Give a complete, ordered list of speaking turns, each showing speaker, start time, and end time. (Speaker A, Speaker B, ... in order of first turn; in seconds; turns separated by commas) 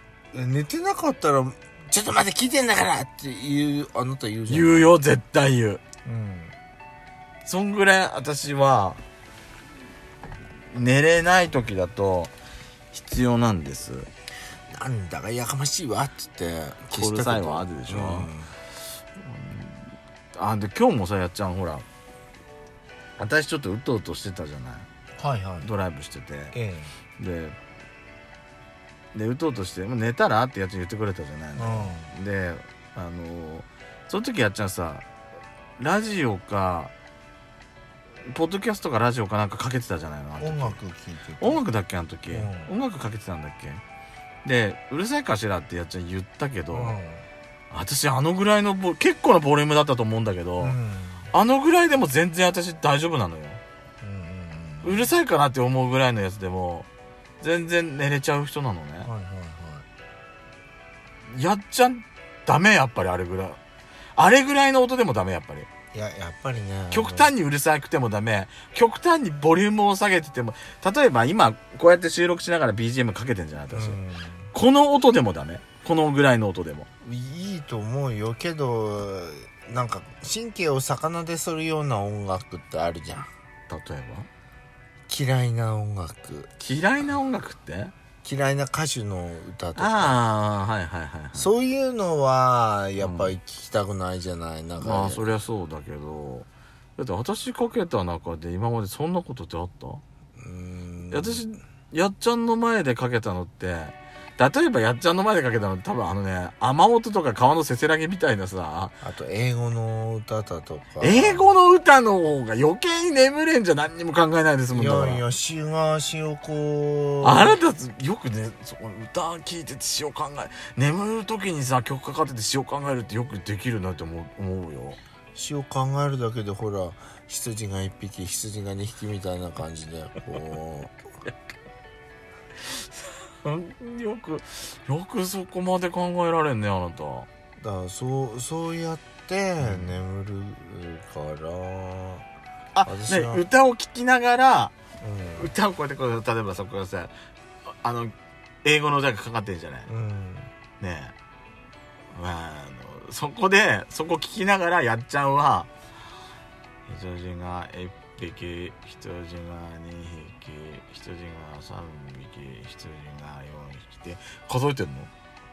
Speaker A: 0.3-4.9, Speaker B: 4.5-5.8, Speaker A: 6.1-6.5, Speaker B: 7.5-9.0, Speaker B: 10.7-12.3, Speaker B: 12.9-14.1, Speaker A: 14.7-18.6, Speaker B: 16.9-18.3, Speaker B: 19.2-21.9, Speaker B: 23.2-24.9, Speaker A: 25.2-25.7, Speaker B: 25.6-26.6, Speaker A: 26.5-26.9, Speaker B: 27.2-27.6, Speaker B: 29.1-35.0, Speaker A: 31.6-32.1, Speaker B: 35.8-36.9, Speaker B: 38.3-40.8, Speaker A: 40.4-41.6, Speaker B: 41.4-43.8, Speaker A: 42.3-42.7, Speaker B: 44.5-47.0, Speaker A: 46.7-47.3, Speaker B: 47.7-50.8, Speaker A: 50.6-51.3, Speaker B: 51.3-53.6, Speaker A: 54.0-55.1, Speaker B: 54.8-56.9, Speaker B: 57.4-59.1, Speaker A: 59.0-59.9, Speaker B: 61.3-63.6, Speaker B: 64.2-65.7, Speaker A: 65.9-67.3, Speaker B: 66.9-74.0, Speaker A: 73.7-74.5, Speaker B: 74.5-76.9, Speaker A: 77.0-83.3, Speaker B: 83.7-84.3, Speaker A: 85.1-86.5, Speaker B: 86.6-87.9, Speaker A: 88.2-90.2, Speaker B: 89.8-91.5, Speaker A: 91.3-95.3, Speaker B: 93.0-93.3, Speaker B: 94.8-100.0, Speaker A: 100.4-101.4, Speaker B: 101.1-109.0, Speaker A: 109.0-111.5, Speaker B: 111.0-115.2, Speaker A: 114.7-117.6, Speaker B: 117.2-125.0, Speaker A: 125.3-130.9, Speaker B: 132.6-137.3, Speaker A: 137.6-142.2, Speaker B: 139.6-140.0, Speaker B: 142.8-144.7, Speaker A: 142.8-143.4, Speaker A: 145.0-145.5, Speaker B: 145.4-147.1, Speaker B: 147.8-148.1, Speaker B: 148.6-149.9, Speaker A: 149.9-150.5, Speaker B: 150.8-151.2, Speaker B: 152.1-155.7, Speaker B: 156.9-165.1